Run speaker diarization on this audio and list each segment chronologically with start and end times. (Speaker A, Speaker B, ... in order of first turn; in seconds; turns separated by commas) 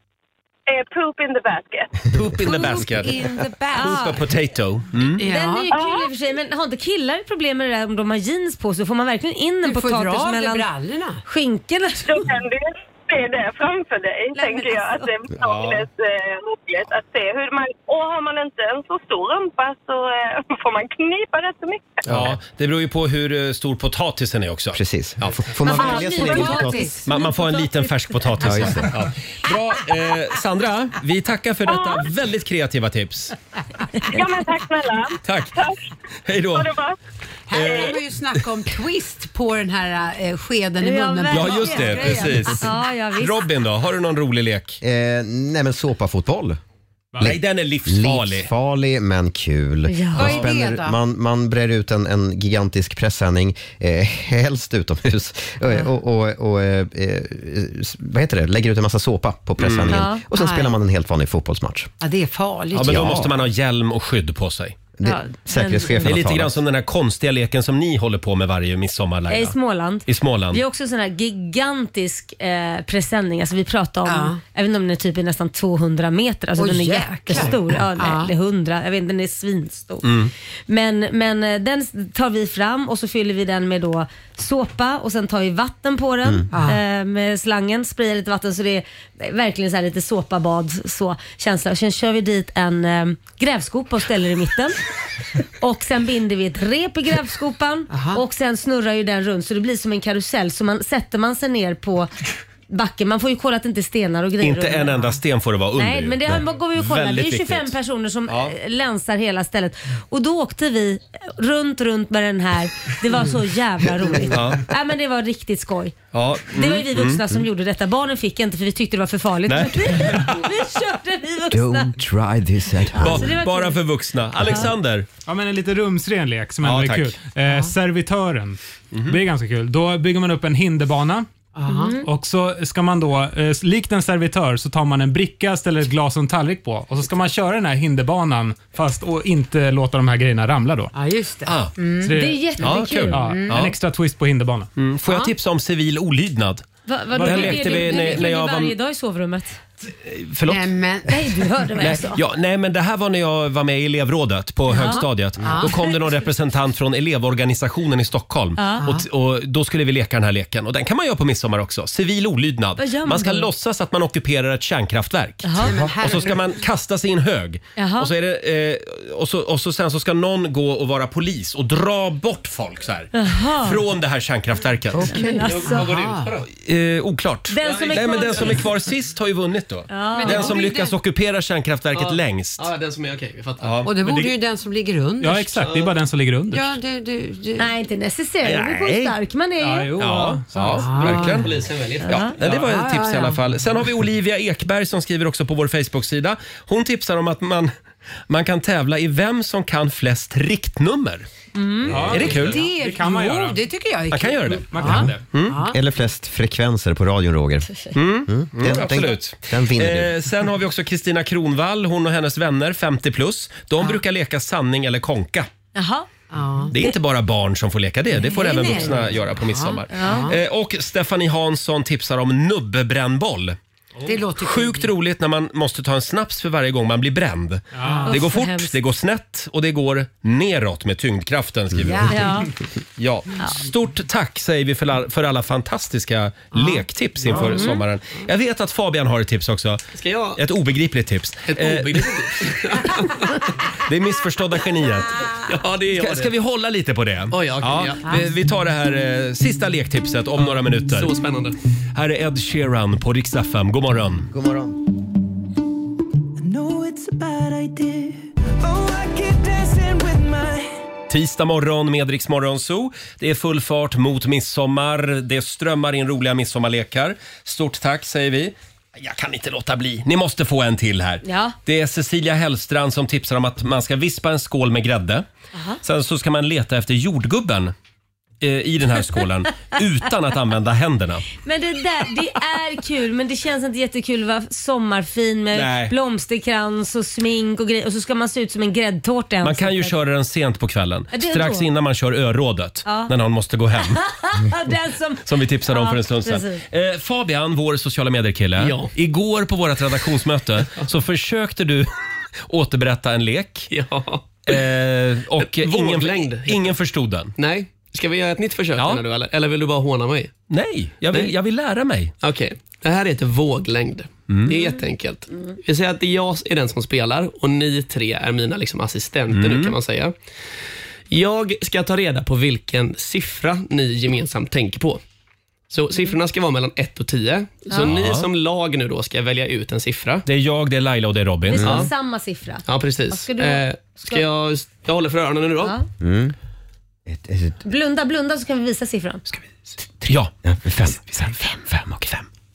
Speaker A: 0.7-1.9, Speaker B: 2.1-3.2, Speaker C: 2.4-4.1, Speaker D: 3.7-4.2, Speaker B: 3.8-5.2, Speaker C: 5.2-5.7, Speaker D: 5.2-10.7, Speaker A: 5.7-6.1, Speaker C: 9.6-11.2, Speaker D: 11.2-12.1, Speaker A: 12.0-22.1, Speaker B: 15.4-15.8, Speaker B: 22.1-25.4, Speaker E: 22.1-22.4, Speaker E: 24.7-26.9, Speaker D: 25.6-28.1, Speaker C: 25.7-27.0, Speaker B: 27.1-33.4, Speaker E: 28.4-28.9, Speaker A: 31.7-32.0, Speaker A: 34.1-35.9, Speaker B: 35.2-35.5, Speaker B: 36.3-36.8, Speaker A: 36.5-37.0, Speaker C: 37.5-42.6, Speaker B: 37.5-38.0, Speaker A: 37.6-37.9, Speaker D: 40.8-43.4, Speaker B: 41.3-44.8, Speaker E: 44.8-46.6, Speaker B: 47.2-48.5, Speaker E: 47.2-61.9, Speaker D: 49.9-50.4, Speaker C: 50.1-51.0, Speaker B: 59.6-60.0, Speaker D: 59.9-60.2, Speaker C: 60.3-60.7, Speaker C: 62.0-63.2, Speaker B: 62.7-64.8, Speaker E: 62.8-63.3, Speaker E: 65.0-66.6, Speaker D: 65.0-66.1, Speaker B: 66.0-70.6, Speaker D: 69.3-80.1, Speaker C: 74.1-74.4, Speaker C: 76.6-78.3, Speaker B: 80.0-80.3, Speaker D: 80.7-94.8, Speaker C: 86.5-86.8, Speaker D: 95.6-102.1, Speaker C: 97.9-98.2, Speaker D: 102.7-105.2, Speaker B: 104.4-107.7, Speaker D: 105.8-116.0, Speaker B: 108.3-108.5, Speaker B: 114.3-114.6, Speaker B: 116.1-117.2, Speaker D: 116.5-122.0, Speaker B: 119.5-120.3, Speaker E: 121.5-123.3, Speaker D: 123.0-123.8, Speaker B: 123.0-125.1, Speaker F: 125.2-131.3, Speaker B: 126.6-127.1, Speaker C: 127.5-127.7, Speaker B: 128.9-129.2, Speaker C: 131.6-132.0, Speaker D: 131.7-132.0, Speaker F: 132.0-140.9, Speaker C: 140.9-142.1, Speaker B: 141.5-141.7, Speaker F: 142.0-142.4, Speaker D: 142.1-143.2, Speaker B: 142.6-143.8, Speaker F: 143.1-144.7, Speaker C: 143.2-143.6, Speaker B: 144.8-146.7, Speaker C: 145.1-145.3, Speaker D: 146.9-149.6, Speaker F: 147.2-148.0, Speaker B: 147.2-148.8, Speaker B: 150.0-150.7, Speaker C: 150.5-151.5, Speaker D: 151.1-152.2, Speaker B: 151.8-175.2, Speaker D: 154.7-155.1, Speaker C: 154.7-155.8, Speaker D: 158.6-158.9, Speaker D: 162.8-163.5, Speaker D: 165.4-165.7, Speaker C: 165.6-166.4, Speaker D: 167.8-168.1, Speaker D: 173.1-173.8, Speaker C: 174.9-176.3, Speaker D: 175.1-175.9, Speaker G: 175.4-176.5, Speaker B: 176.5-182.7, Speaker D: 177.5-178.6, Speaker G: 177.6-178.7, Speaker D: 179.9-180.6, Speaker C: 180.2-180.9, Speaker G: 181.9-184.1, Speaker B: 183.6-184.2, Speaker C: 183.8-185.8, Speaker F: 185.2-186.8, Speaker G: 185.6-185.9, Speaker C: 186.5-187.7, Speaker D: 187.6-189.9, Speaker B: 188.4-189.2, Speaker F: 189.6-191.0, Speaker B: 190.0-197.7, Speaker C: 190.8-191.5, Speaker G: 191.0-192.6, Speaker D: 192.0-192.4, Speaker C: 192.5-193.4, Speaker B: 198.3-201.3, Speaker D: 201.6-202.2, Speaker F: 201.9-203.6, Speaker B: 201.9-202.6, Speaker C: 202.0-205.8, Speaker B: 204.1-204.8, Speaker F: 204.7-205.2, Speaker B: 205.3-205.6, Speaker E: 205.7-207.7, Speaker B: 207.9-215.5, Speaker E: 208.3-210.1, Speaker D: 215.8-216.1, Speaker C: 216.3-216.8, Speaker B: 216.7-223.6, Speaker C: 218.1-220.4, Speaker D: 219.9-220.3, Speaker C: 224.1-224.9, Speaker B: 224.3-232.1, Speaker F: 227.8-228.1, Speaker C: 227.8-228.1, Speaker D: 228.1-228.8, Speaker C: 231.8-232.3, Speaker D: 232.1-232.5, Speaker B: 233.0-239.8, Speaker C: 236.5-237.4, Speaker D: 237.4-237.8, Speaker G: 240.0-240.4, Speaker B: 240.4-242.4, Speaker G: 241.5-243.4, Speaker B: 243.9-245.3, Speaker G: 245.4-246.3, Speaker B: 245.9-251.1, Speaker G: 247.3-248.2, Speaker G: 250.4-251.6, Speaker B: 251.9-254.3, Speaker E: 254.3-254.8, Speaker B: 261.1-275.2, Speaker D: 271.2-271.6, Speaker B: 275.8-277.7, Speaker B: 278.4-281.3, Speaker D: 281.4-289.9, Speaker B: 285.5-285.9, Speaker B: 289.4-294.0, Speaker D: 291.1-291.7, Speaker D: 292.9-293.1, Speaker D: 293.8-296.6, Speaker B: 295.3-301.9, Speaker G: 298.6-298.9, Speaker B: 302.4-303.7, Speaker G: 303.7-304.6, Speaker B: 304.5-307.3, Speaker G: 305.4-306.8, Speaker G: 307.4-310.3, Speaker B: 310.5-312.1, Speaker G: 312.2-320.1, Speaker B: 314.3-314.6, Speaker B: 319.3-319.8, Speaker G: 321.1-325.0, Speaker G: 325.7-330.3, Speaker B: 327.8-328.3, Speaker B: 330.3-331.7, Speaker D: 331.5-334.2, Speaker E: 331.6-331.9, Speaker G: 331.6-331.9, Speaker G: 332.7-335.8, Speaker E: 336.0-336.4, Speaker E: 337.1-337.6, Speaker D: 337.6-339.2, Speaker B: 340.0-340.3, Speaker E: 340.4-342.1